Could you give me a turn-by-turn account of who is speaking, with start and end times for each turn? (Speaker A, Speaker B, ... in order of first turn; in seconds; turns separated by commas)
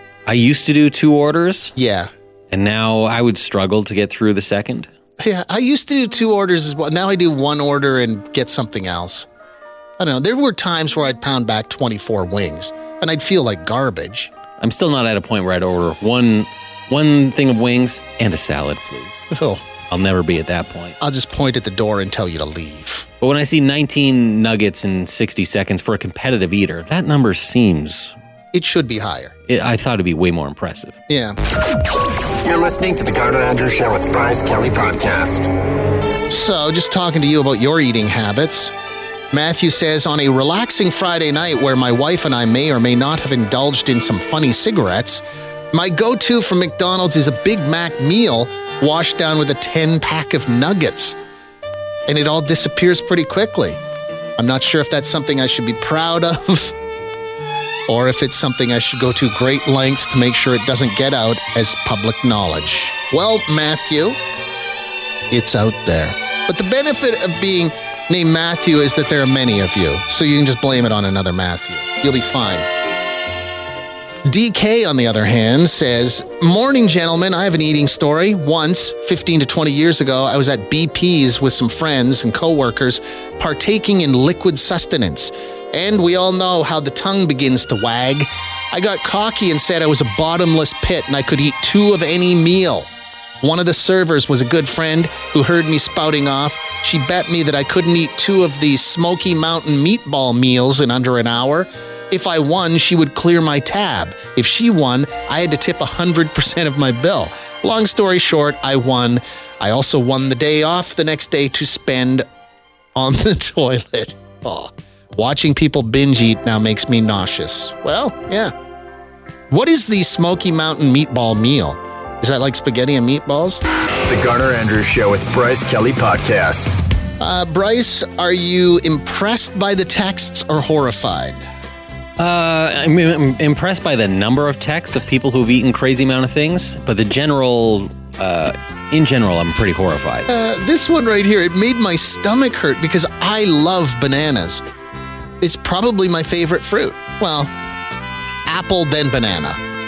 Speaker A: 0.3-1.8, Speaker B: 1.8-2.1, Speaker A: 2.5-4.9, Speaker B: 5.2-9.3, Speaker B: 10.0-14.3, Speaker A: 14.6-19.2, Speaker B: 19.3-19.6, Speaker A: 19.9-21.0, Speaker B: 21.0-23.1, Speaker A: 23.2-28.2, Speaker B: 28.5-29.4, Speaker A: 29.5-31.0, Speaker B: 31.1-31.4, Speaker C: 32.4-35.5, Speaker B: 36.3-38.7, Speaker B: 39.3-51.2, Speaker B: 52.1-53.8, Speaker B: 54.4-56.8, Speaker B: 57.9-64.2, Speaker B: 65.3-72.7, Speaker B: 74.2-92.9, Speaker B: 93.4-112.3, Speaker B: 113.0-118.5, Speaker B: 119.5-123.6, Speaker C: 124.1-126.8, Speaker B: 127.2-131.4, Speaker A: 132.2-140.3, Speaker B: 140.3-144.6, Speaker B: 145.4-147.5, Speaker B: 148.5-149.6